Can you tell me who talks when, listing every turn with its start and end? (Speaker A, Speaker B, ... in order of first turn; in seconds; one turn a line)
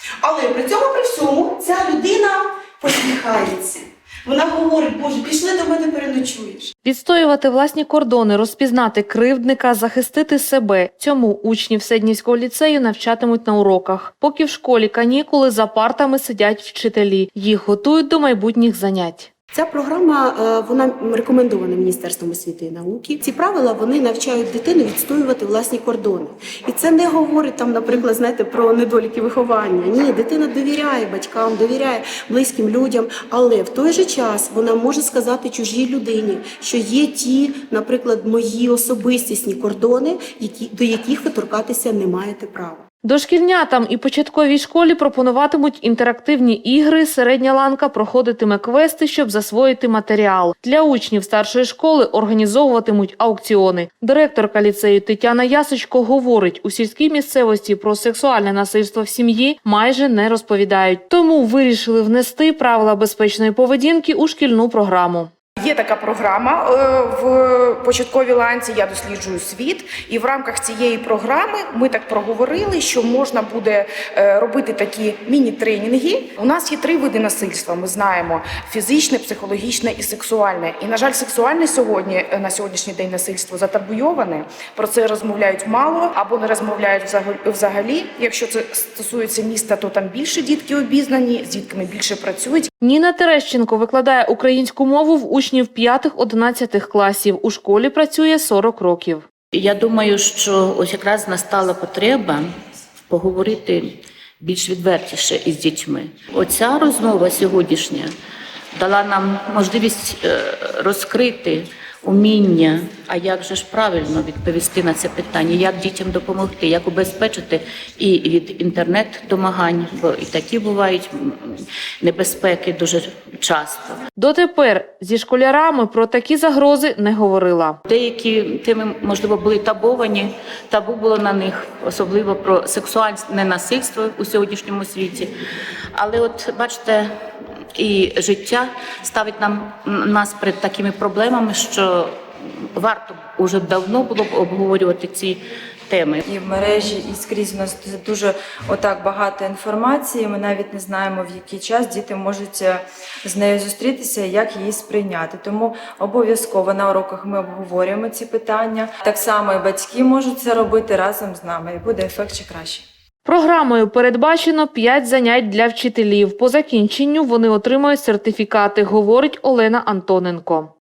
Speaker A: 0.2-6.7
Speaker B: 6.8-19.3
Speaker A: 19.5-42.8
Speaker B: 43.0-65.3
Speaker C: 65.6-92.7
Speaker B: 92.8-99.2
Speaker D: 99.5-102.5
Speaker D: 103.1-103.9
Speaker D: 104.4-108.1
Speaker D: 108.8-124.0
Speaker B: 124.2-127.8
Speaker D: 127.8-135.3
Speaker D: 136.0-137.1
Speaker D: 137.8-142.2
Speaker D: 142.8-146.2
Speaker E: 146.2-162.8
Speaker B: 163.2-170.7